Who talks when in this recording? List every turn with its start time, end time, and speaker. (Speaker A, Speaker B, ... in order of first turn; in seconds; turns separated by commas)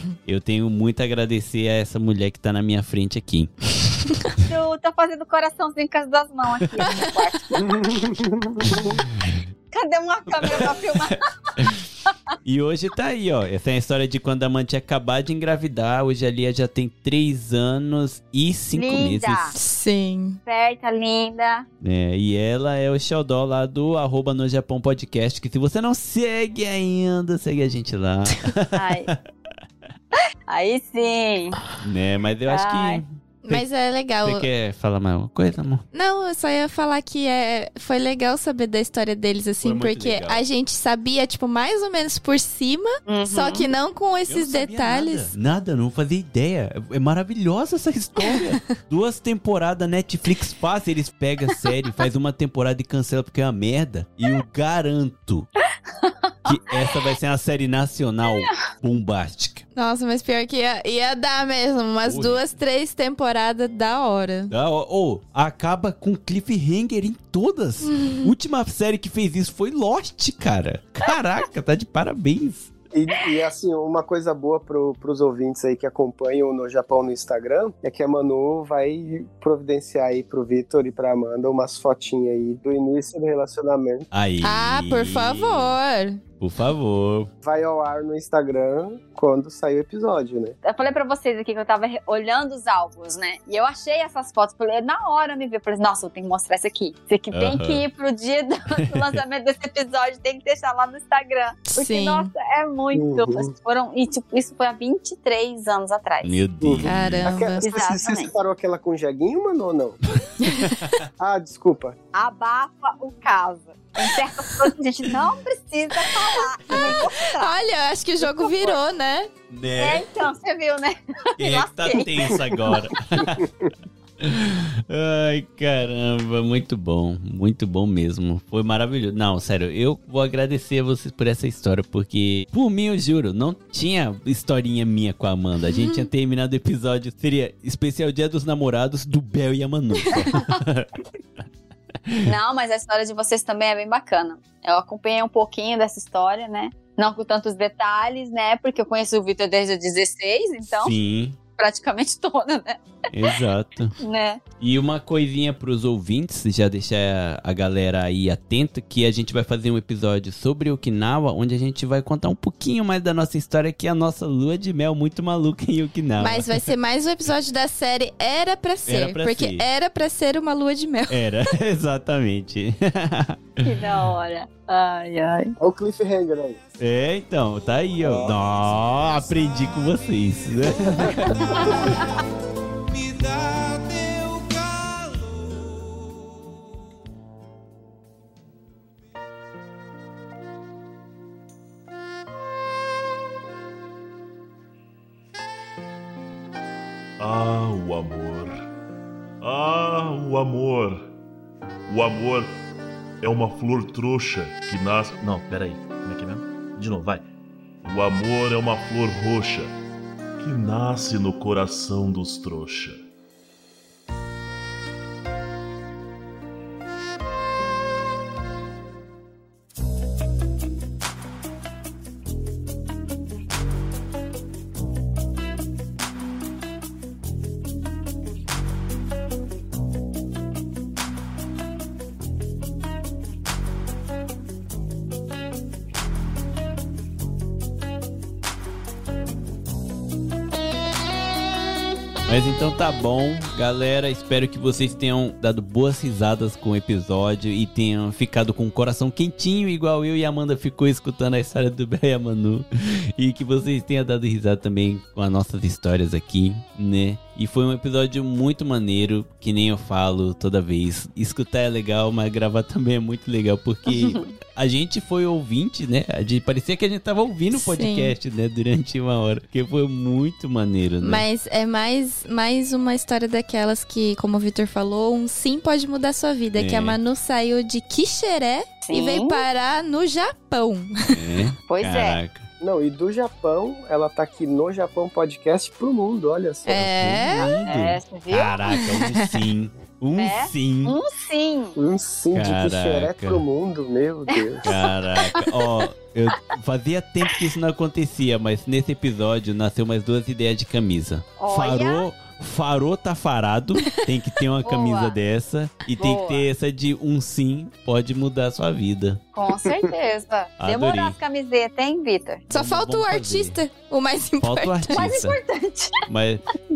Speaker A: 0.2-4.4, Speaker B: 4.4-7.8, Speaker C: 7.6-9.0, Speaker A: 8.7-9.4, Speaker B: 9.7-11.3, Speaker A: 10.4-10.7, Speaker A: 12.4-19.5, Speaker B: 18.7-19.6, Speaker D: 19.6-20.4, Speaker B: 20.4-21.6, Speaker A: 21.8-29.2, Speaker B: 28.7-29.1, Speaker B: 30.1-31.6, Speaker A: 31.8-33.6, Speaker B: 32.5-33.0, Speaker D: 33.4-34.5, Speaker A: 34.2-35.8, Speaker D: 35.9-45.3, Speaker A: 39.6-40.4, Speaker B: 43.1-43.7, Speaker A: 44.3-55.5, Speaker B: 55.9-56.7, Speaker A: 56.5-59.6, Speaker D: 59.8-64.5, Speaker A: 62.0-62.5, Speaker A: 64.5-72.7, Speaker D: 67.9-68.3, Speaker C: 72.9-84.1, Speaker A: 84.1-85.8, Speaker D: 84.4-86.2, Speaker A: 86.4-87.3, Speaker C: 87.4-90.6, Speaker B: 90.6-106.4, Speaker A: 97.3-97.8, Speaker D: 101.7-102.3, Speaker C: 102.9-103.5, Speaker A: 106.2-107.3, Speaker C: 106.6-110.0, Speaker D: 106.8-107.6, Speaker B: 107.6-108.3, Speaker D: 110.4-110.7, Speaker C: 111.2-112.0, Speaker B: 112.1-117.5, Speaker D: 116.7-119.3, Speaker B: 118.2-118.8, Speaker A: 119.5-120.0, Speaker B: 119.8-122.4, Speaker A: 121.4-123.5, Speaker A: 124.2-140.9, Speaker D: 135.7-136.1, Speaker B: 140.1-140.6, Speaker B: 142.2-150.9, Speaker A: 150.7-151.4, Speaker B: 151.6-152.8, Speaker A: 153.1-153.9, Speaker B: 154.0-154.4, Speaker A: 154.6-166.7, Speaker D: 166.2-171.3, Speaker A: 168.8-169.6, Speaker A: 171.1-173.6, Speaker B: 173.6-175.6, Speaker C: 175.6-176.6, Speaker A: 176.8-182.0, Speaker C: 178.0-178.3, Speaker B: 181.3-182.1, Speaker E: 197.2-198.6, Speaker E: 199.4-201.1, Speaker E: 201.9-202.6, Speaker E: 203.2-207.2, Speaker E: 207.8-209.7, Speaker E: 210.4-213.0, Speaker A: 242.3-271.2, Speaker B: 264.0-264.3, Speaker D: 267.5-268.1, Speaker D: 271.0-281.2, Speaker A: 276.5-277.0, Speaker B: 278.8-279.4, Speaker A: 281.1-282.4, Speaker B: 281.7-282.2, Speaker C: 282.6-287.2, Speaker D: 286.6-287.5, Speaker A: 287.0-291.0, Speaker B: 287.4-288.7, Speaker B: 290.2-291.8, Speaker C: 291.8-294.7, Speaker A: 292.3-293.4, Speaker B: 294.3-295.4, Speaker A: 294.6-309.2, Speaker B: 301.4-302.0, Speaker B: 304.6-305.2, Speaker B: 306.0-306.5, Speaker B: 309.3-312.4, Speaker C: 309.6-309.9, Speaker A: 310.6-311.2, Speaker D: 312.5-315.2, Speaker A: 312.5-313.6, Speaker A: 314.4-315.4, Speaker B: 314.9-316.0, Speaker A: 316.1-316.4